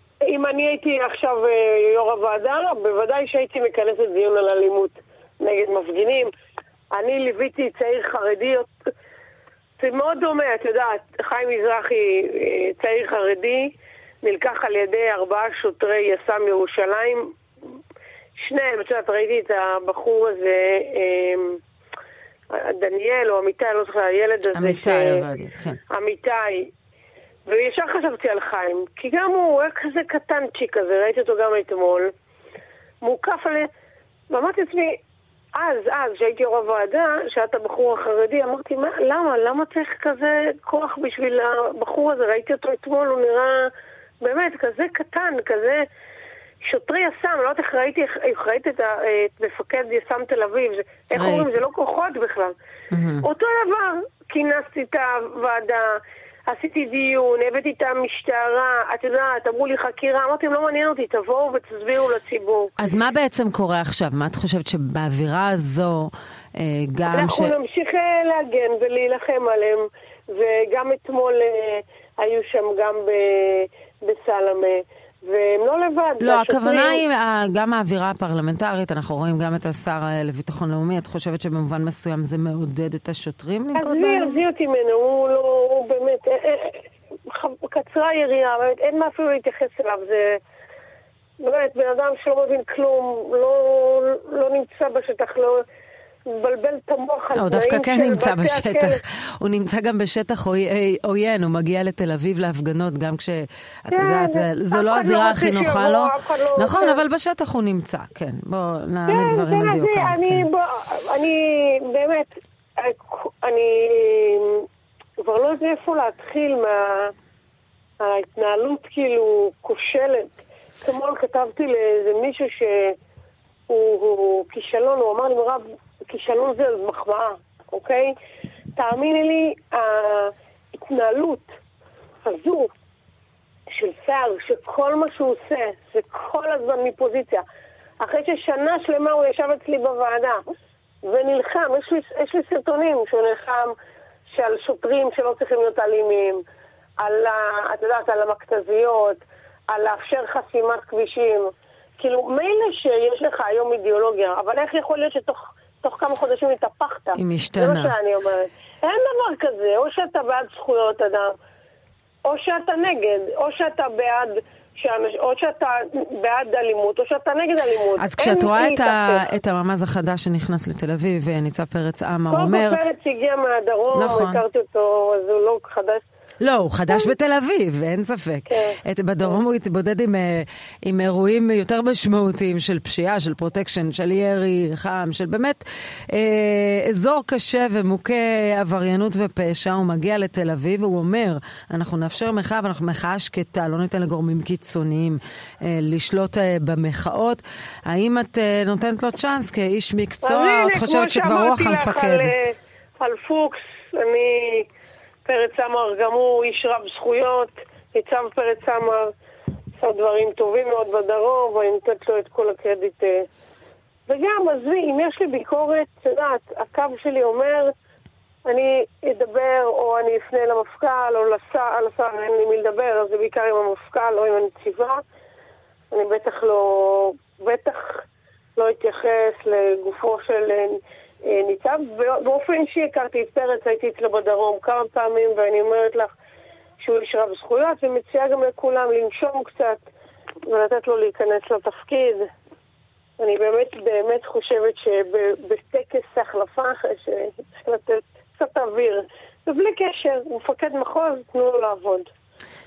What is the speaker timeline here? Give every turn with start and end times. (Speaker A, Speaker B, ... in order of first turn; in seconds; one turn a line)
Speaker A: 0.3-6.3
Speaker A: 6.9-8.7
Speaker A: 9.8-17.4
Speaker A: 18.4-21.6
Speaker A: 22.5-25.3
Speaker B: 24.6-25.8
Speaker A: 25.9-26.7
Speaker A: 27.5-32.1
Speaker A: 33.0-33.7
Speaker A: 34.3-35.0
Speaker A: 35.5-45.9
Speaker A: 46.6-52.5
Speaker B: 51.1-51.5
Speaker B: 52.9-53.2
Speaker A: 53.2-62.8
Speaker B: 62.8-67.5
Speaker A: 67.1-77.0
Speaker B: 76.2-84.4
Speaker A: 83.8-90.4
Speaker A: 91.4-95.6
Speaker A: 96.3-99.0
Speaker B: 97.3-110.5
Speaker A: 103.9-107.0
Speaker A: 109.1-114.7
Speaker A: 115.2-117.1
Speaker A: 118.0-123.0
Speaker A: 123.7-128.2
Speaker A: 128.8-131.6
Speaker A: 132.2-132.7
Speaker A: 133.7-137.4
Speaker A: 138.0-140.4
Speaker A: 141.0-143.7
Speaker A: 144.3-146.4
Speaker A: 147.0-161.3
Speaker B: 157.2-157.9
Speaker A: 162.2-169.3
Speaker B: 168.0-172.8
Speaker A: 172.3-176.0
Speaker B: 173.9-174.4
Speaker B: 176.4-202.3
Speaker A: 178.5-179.4
Speaker A: 200.2-204.7
Speaker A: 205.2-209.1
Speaker A: 209.8-213.3
Speaker A: 214.1-217.7
Speaker A: 218.5-225.0
Speaker A: 225.9-236.1
Speaker A: 236.8-239.9
Speaker A: 240.5-242.3
Speaker A: 243.2-252.1